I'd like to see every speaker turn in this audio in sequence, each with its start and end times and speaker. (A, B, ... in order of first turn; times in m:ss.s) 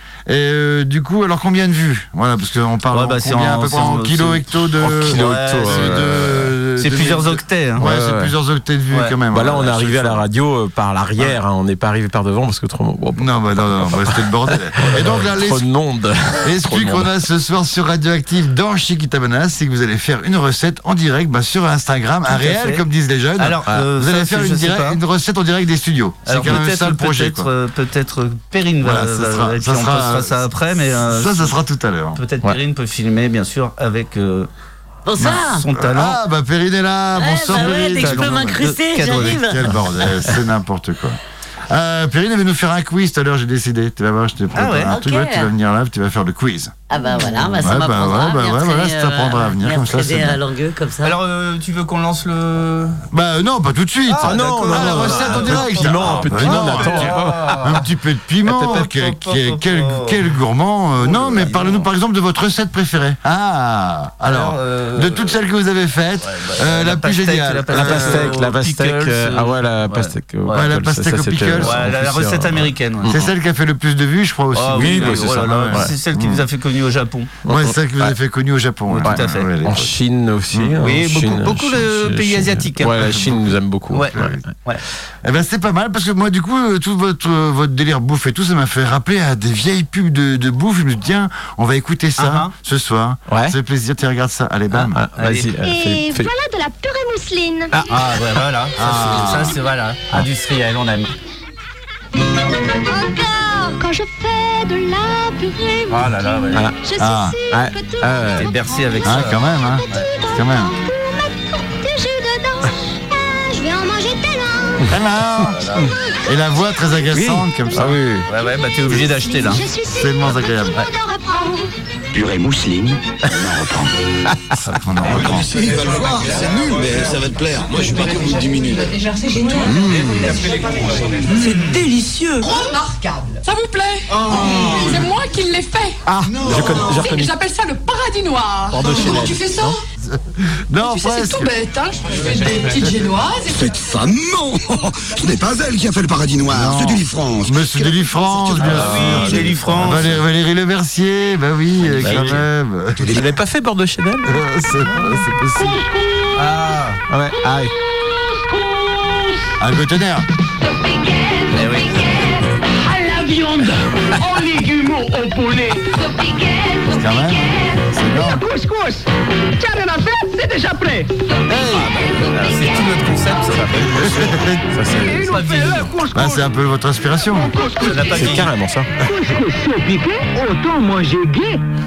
0:00.3-0:10.2 A
0:02.9-0:07.9 B
0:04.8-0:06.1 C
0:07.8-0:08.3 C
0:08.9-0:09.2 B
0:09.3-0:17.1 C
0:13.2-0:15.6 A
0:16.4-0:27.5 A
0:22.3-0:22.8 B
0:23.4-0:25.0 B
0:26.2-0:31.5 B
0:28.8-0:32.2 A
0:32.1-0:34.5 B
0:35.0-0:35.6 D
0:35.2-0:50.4 A
0:35.3-0:36.2 B
0:37.1-0:39.7 D
0:37.5-0:39.5 B
0:44.5-0:44.9 B
0:44.9-0:45.5 D
0:46.9-0:51.2 D
0:51.0-0:53.0 B
0:53.1-1:08.4 A
0:54.1-0:57.8 B
0:54.2-0:57.8 C
0:58.4-1:00.2 B
1:01.0-1:01.9 B
1:04.2-1:05.4 B
1:06.2-1:10.7 B
1:07.7-1:13.2 C
1:10.5-1:11.9 A
1:11.6-1:13.1 B
1:13.1-1:16.4 A
1:14.5-1:17.3 B
1:14.7-1:15.9 C
1:17.4-1:18.1 C
1:17.4-1:19.9 A
1:18.9-1:19.5 B
1:19.0-1:24.5 C
1:20.8-1:23.2 B
1:23.9-1:24.8 B
1:24.1-1:24.4 A
1:25.2-1:35.0 A
1:32.2-1:32.5 B
1:33.3-1:33.6 C
1:34.7-1:36.3 C
1:35.2-1:35.5 B
1:35.6-1:37.8 E
1:37.9-1:41.1 B
1:38.8-1:39.6 A
1:42.8-1:54.8 E
1:45.9-1:46.6 B
1:47.0-1:47.4 A
1:47.5-1:48.5 C
1:48.4-1:50.1 B
1:49.0-1:50.7 A
1:54.8-1:58.0 A
1:55.5-1:55.9 B
1:55.8-1:56.2 E
1:57.1-1:58.3 C
1:58.3-1:59.6 B
1:58.9-2:01.7 E
1:59.9-2:00.8 A
2:02.1-2:03.9 F
2:04.6-2:05.5 A
2:05.1-2:09.0 F
2:09.0-2:09.7 G
2:09.5-2:11.3 F
2:11.3-2:11.8 G
2:12.4-2:19.8 G
2:14.3-2:14.7 F
2:16.1-2:17.4 C
2:16.3-2:16.8 F
2:18.7-2:19.8 C
2:20.0-2:21.5 A
2:20.8-2:23.7 G
2:23.4-2:28.8 F
2:26.5-2:33.2 A
2:28.6-2:30.1 C
2:28.6-2:30.1 B
2:32.0-2:32.4 C
2:33.0-2:33.3 F
2:33.1-2:34.4 C
2:34.2-2:35.8 A
2:35.6-2:36.5 H
2:36.3-2:37.0 B
2:37.1-2:37.7 C
2:37.8-2:39.4 H
2:39.6-2:40.2 A
2:40.6-2:51.1 H
2:41.5-2:42.1 B
2:46.9-2:48.4 A
2:51.5-2:51.9 A
2:51.6-2:54.4 B
2:53.9-2:54.6 A
2:54.7-2:55.2 C
2:55.0-2:56.5 H
2:55.1-2:55.9 B
2:56.1-2:57.6 A
2:57.3-2:58.5 H
2:57.7-2:58.5 B
2:58.1-2:58.9 C
2:59.0-3:01.6 H